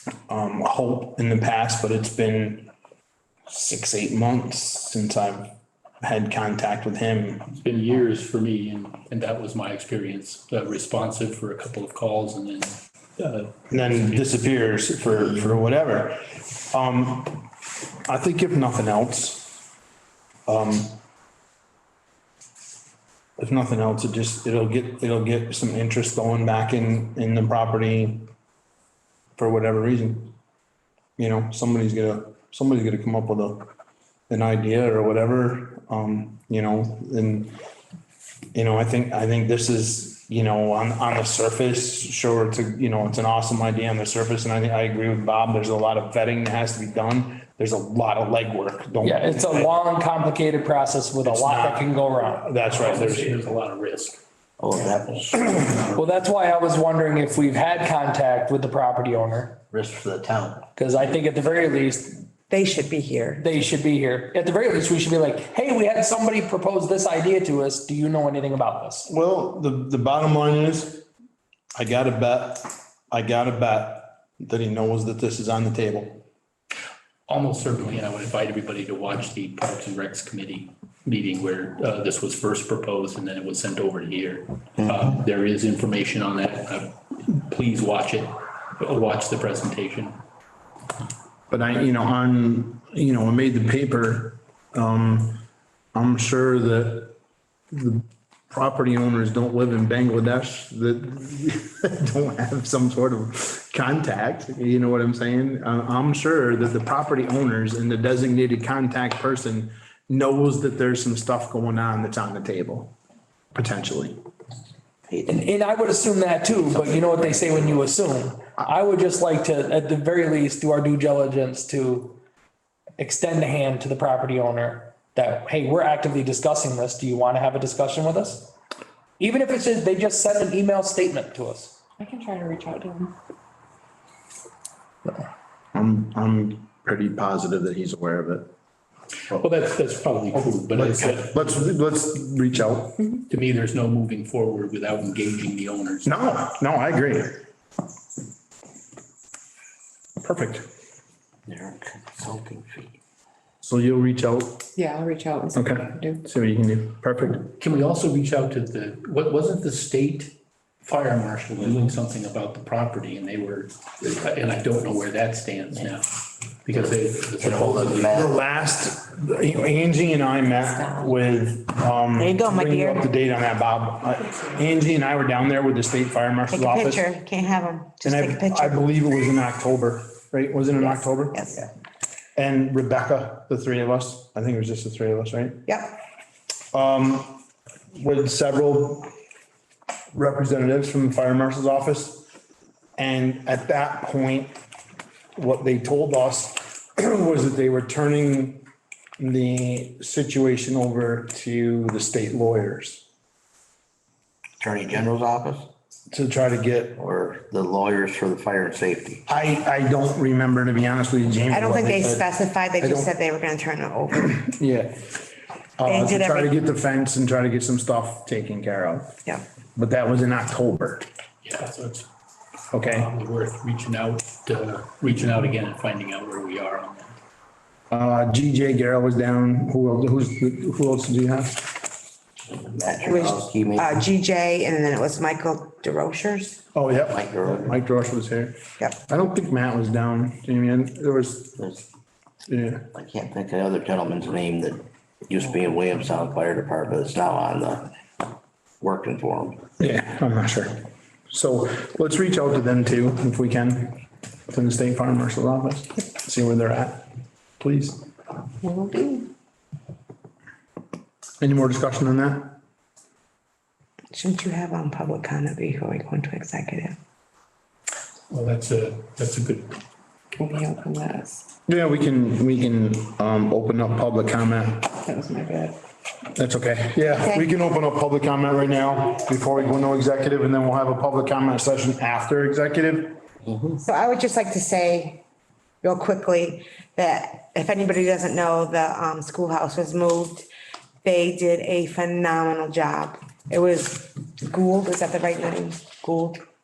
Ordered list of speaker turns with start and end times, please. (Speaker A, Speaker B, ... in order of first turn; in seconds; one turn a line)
Speaker A: 0.3-2.7
Speaker A: 3.5-7.5
Speaker B: 7.5-14.0
Speaker A: 13.7-17.5
Speaker A: 18.1-19.5
Speaker A: 20.4-21.0
Speaker A: 23.4-28.3
Speaker A: 29.4-30.3
Speaker A: 31.2-33.7
Speaker A: 34.3-37.5
Speaker A: 38.5-49.7
Speaker C: 49.0-52.5
Speaker A: 51.2-53.4
Speaker B: 52.7-54.2
Speaker D: 54.6-55.7
Speaker B: 55.6-56.1
Speaker C: 55.9-59.6
Speaker D: 59.7-60.6
Speaker C: 60.8-62.2
Speaker E: 62.5-63.5
Speaker C: 63.4-69.1
Speaker A: 69.1-71.0
Speaker A: 71.7-76.2
Speaker B: 77.3-90.2
Speaker A: 91.5-95.4
Speaker A: 95.9-97.1
Speaker A: 97.7-112.9
Speaker A: 113.5-114.2
Speaker D: 115.1-115.4
Speaker C: 115.3-122.2
Speaker D: 116.7-117.8
Speaker C: 123.0-128.5
Speaker C: 129.2-131.8
Speaker F: 132.0-133.1
Speaker A: 135.7-138.5
Speaker B: 139.3-141.6
Speaker A: 140.3-143.2
Speaker B: 143.3-146.1
Speaker A: 146.0-147.4
Speaker A: 150.2-150.7
Speaker D: 151.5-152.9
Speaker A: 153.6-154.7
Speaker F: 154.8-156.2
Speaker A: 155.5-157.5
Speaker B: 157.6-168.2
Speaker D: 167.4-168.3
Speaker A: 168.1-177.1
Speaker E: 172.2-173.1
Speaker E: 176.5-178.8
Speaker A: 178.0-181.4
Speaker E: 180.8-181.7
Speaker A: 182.3-185.6
Speaker E: 185.7-186.0
Speaker A: 186.7-187.4
Speaker A: 187.9-189.1
Speaker A: 190.1-192.3
Speaker A: 193.0-194.6
Speaker A: 195.3-198.6
Speaker A: 199.2-203.0
Speaker D: 204.6-205.7
Speaker A: 206.1-207.0
Speaker D: 207.0-209.2
Speaker A: 209.3-212.3
Speaker E: 211.5-214.4
Speaker A: 212.8-213.1
Speaker A: 214.2-215.1
Speaker A: 215.8-219.1
Speaker E: 215.8-216.5
Speaker A: 219.7-221.1
Speaker B: 221.4-222.1
Speaker A: 222.7-223.1
Speaker B: 222.8-227.2
Speaker A: 227.9-231.7
Speaker D: 232.6-234.0
Speaker E: 233.0-236.6
Speaker A: 236.7-241.6
Speaker D: 237.1-237.7
Speaker D: 241.6-241.8
Speaker A: 242.5-242.9
Speaker D: 242.9-247.9
Speaker D: 248.8-249.6
Speaker A: 249.8-257.0
Speaker A: 257.6-258.0
Speaker F: 258.6-259.2
Speaker A: 261.4-262.6
Speaker E: 264.1-267.0
Speaker B: 268.3-269.8
Speaker F: 270.4-271.3
Speaker A: 271.7-275.0
Speaker F: 275.1-275.7
Speaker A: 276.4-283.2
Speaker E: 283.8-285.2
Speaker E: 285.8-290.5
Speaker E: 291.0-296.4